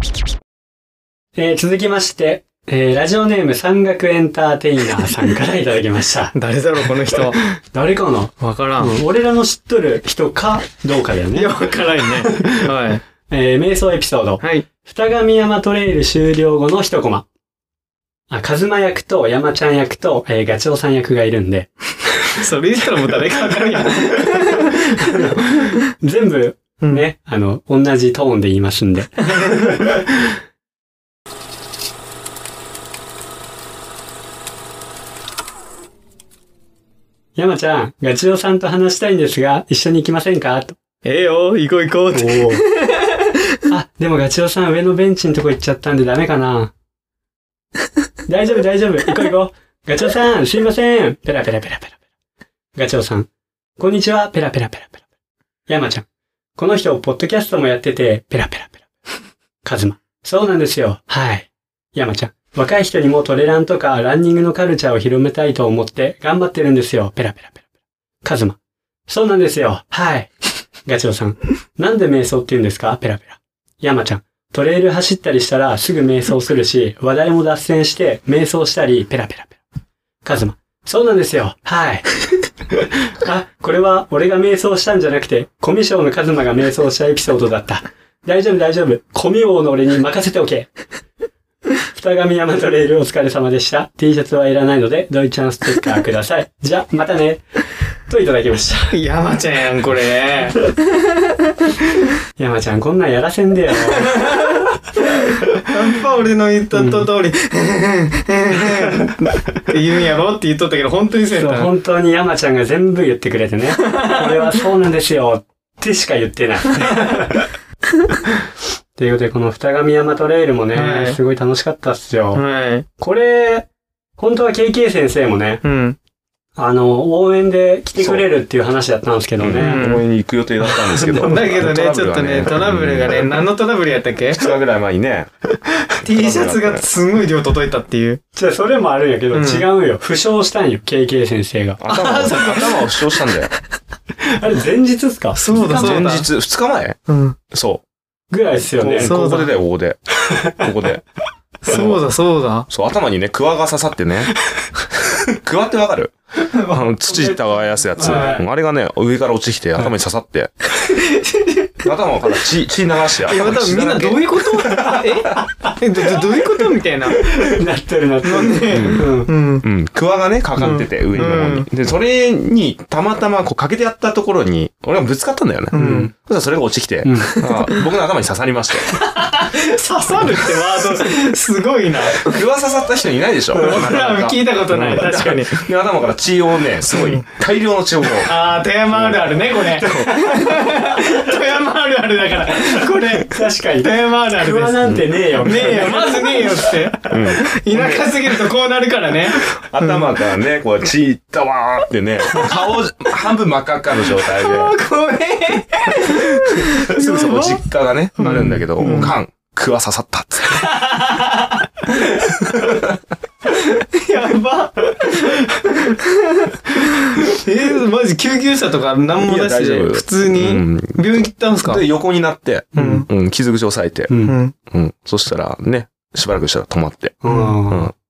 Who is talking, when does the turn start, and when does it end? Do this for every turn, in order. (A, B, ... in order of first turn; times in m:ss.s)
0:01.3-0:06.4 A
0:06.3-0:07.4 B
0:07.1-0:11.6 A
0:08.4-0:09.0 B
0:11.3-0:13.0 B
0:12.2-0:12.7 A
0:13.3-0:17.3 A
0:14.4-0:14.7 B
0:18.3-0:21.7 A
0:22.2-0:25.8 B
0:24.4-0:29.9 A
0:26.8-0:27.0 B
0:29.3-0:30.0 B
0:37.4-0:40.8 A
0:41.0-0:43.6 B
0:42.1-0:42.6 A
0:43.7-0:46.7 A
0:48.2-0:52.0 A
0:52.7-0:55.0 A
0:55.7-0:58.8 A
0:59.6-1:07.6 A
1:08.2-1:10.3 A
1:10.8-1:19.6 A
1:20.2-1:22.1 A
1:23.2-1:30.7 A
1:31.9-1:37.4 A
1:38.0-1:39.0 A
1:38.9-1:41.7 B
1:42.4-1:44.7 A
1:44.0-1:51.7 B
1:46.7-1:47.1 A
1:51.3-1:57.5 A
1:53.8-1:54.6 B
1:59.0-2:02.4 A
2:00.7-2:01.2 B
2:02.3-2:02.8 B
2:03.0-2:05.6 A
2:05.6-2:06.0 B
2:06.6-2:09.8 A
2:08.0-2:08.2 C
2:09.4-2:13.4 C
2:09.6-2:10.0 B
2:10.7-2:11.7 A
2:11.1-2:14.5 B
2:14.3-2:15.3 C
2:15.8-2:16.8 C
2:15.9-2:18.2 B
2:18.3-2:21.8 A
2:19.3-2:19.7 B
2:21.8-2:23.5 C
2:21.9-2:23.2 B
2:24.2-2:26.1 A
2:25.3-2:26.3 B
2:25.6-2:27.0 C
2:27.1-2:27.4 B
2:27.5-2:27.8 C
2:28.3-2:29.1 A
2:28.8-2:31.0 C
2:29.0-2:29.5 B
2:30.3-2:30.6 A
2:31.6-2:32.7 B
2:31.7-2:32.1 C
2:32.7-2:34.4 C
2:34.9-2:40.5 C
2:36.5-2:36.8 B
2:38.0-2:38.4 A
2:38.0-2:38.4 B
2:40.7-2:41.9 B
2:41.8-2:45.4 C
2:43.2-2:47.4 B
2:47.2-2:49.3 A
2:48.2-2:49.6 B
2:48.7-2:49.1 C
2:49.6-2:59.0 C
2:50.6-2:51.7 B
2:55.7-2:56.1 B
2:55.7-2:56.1 A
2:57.0-2:57.4 A
2:57.4-2:57.8 B
2:58.9-3:02.4 B
3:00.1-3:00.5 C
3:02.1-3:10.7 C
3:03.5-3:05.6 B
3:04.7-3:05.0 A
3:06.9-3:07.2 B
3:08.2-3:14.8 B
3:12.6-3:16.8 A
3:15.4-3:20.1 B
3:17.0-3:18.1 C
3:19.5-3:24.8 C
3:24.2-3:27.6 B
3:26.0-3:30.8 C
3:28.2-3:29.2 B
3:28.2-3:29.1 A
3:30.4-3:32.6 B
3:32.5-3:32.9 C
3:33.5-3:41.8 B
3:39.2-3:44.1 C
3:42.7-3:43.0 A
3:42.8-3:43.1 B
3:44.1-3:44.4 A
3:44.2-3:44.5 B
3:44.7-3:47.9 C
3:47.2-3:47.9 A
3:47.3-3:47.6 B